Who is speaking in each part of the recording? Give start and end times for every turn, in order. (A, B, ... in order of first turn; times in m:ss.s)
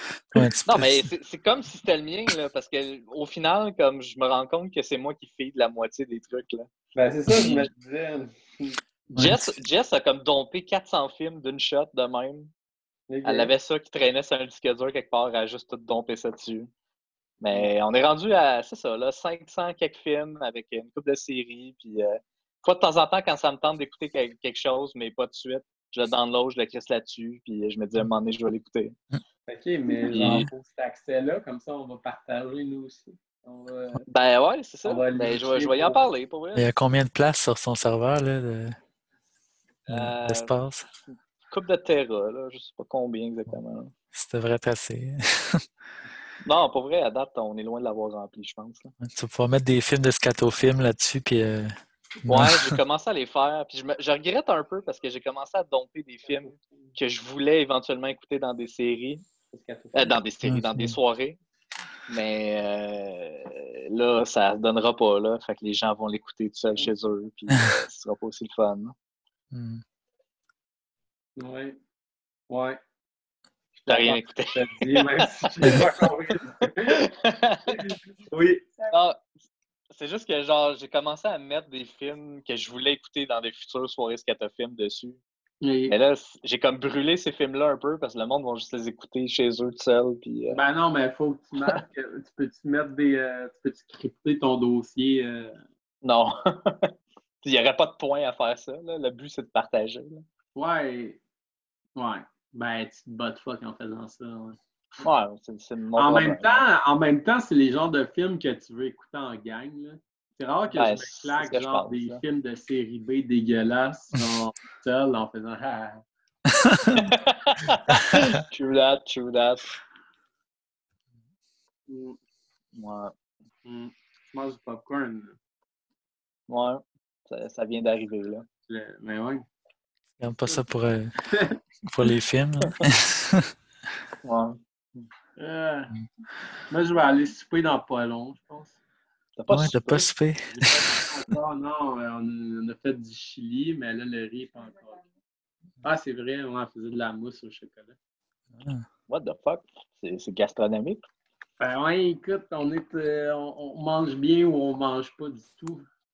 0:00.4-0:01.0 A
0:00.7-0:06.7 B
0:07.0-0:08.8 C
0:07.3-0:07.7 B
0:09.2-0:12.5 B
0:09.2-0:09.4 A
0:13.1-0:13.5 C
0:13.2-0:16.7 B
0:17.4-0:29.0 B
0:29.5-0:34.0 C
0:30.1-0:30.5 B
0:34.0-0:36.7 B
0:34.8-0:36.1 C
0:36.6-0:38.7 A
0:39.9-0:40.5 B
0:39.9-0:40.8 A
0:41.1-0:43.9 B
0:44.2-0:45.1 A
0:46.4-0:48.9 B
0:49.1-0:51.7 A
0:52.3-0:59.3 B
0:52.3-0:52.6 A
0:56.3-0:56.9 C
0:59.5-1:00.2 C
0:59.9-1:01.4 B
1:02.1-1:09.0 B
1:09.5-1:09.8 A
1:11.4-1:11.8 C
1:12.5-1:12.8 C
1:13.8-1:17.0 C
1:13.9-1:15.8 B
1:17.0-1:17.8 B
1:17.7-1:18.7 C
1:18.9-1:19.2 B
1:19.9-1:25.2 B
1:25.6-1:26.0 C
1:25.9-1:30.6 B
1:30.5-1:35.6 C
1:36.0-1:40.2 B
1:40.6-1:41.2 C
1:42.0-1:44.6 C
1:45.0-1:46.6 B
1:46.0-1:56.0 C
1:50.7-1:52.2 B
1:56.9-1:59.7 B
2:01.9-2:02.2 C
2:02.7-2:03.1 B
2:03.6-2:05.4 C
2:06.5-2:08.5 B
2:08.7-2:09.4 C
2:10.2-2:11.1 A
2:12.0-2:13.5 A
2:14.2-2:14.6 B
2:15.4-2:15.9 C
2:16.7-2:18.8 C
2:19.4-2:20.1 B
2:19.5-2:20.8 A
2:20.5-2:25.0 C
2:25.8-2:28.0 C
2:29.1-2:31.0 B
2:31.6-2:35.9 C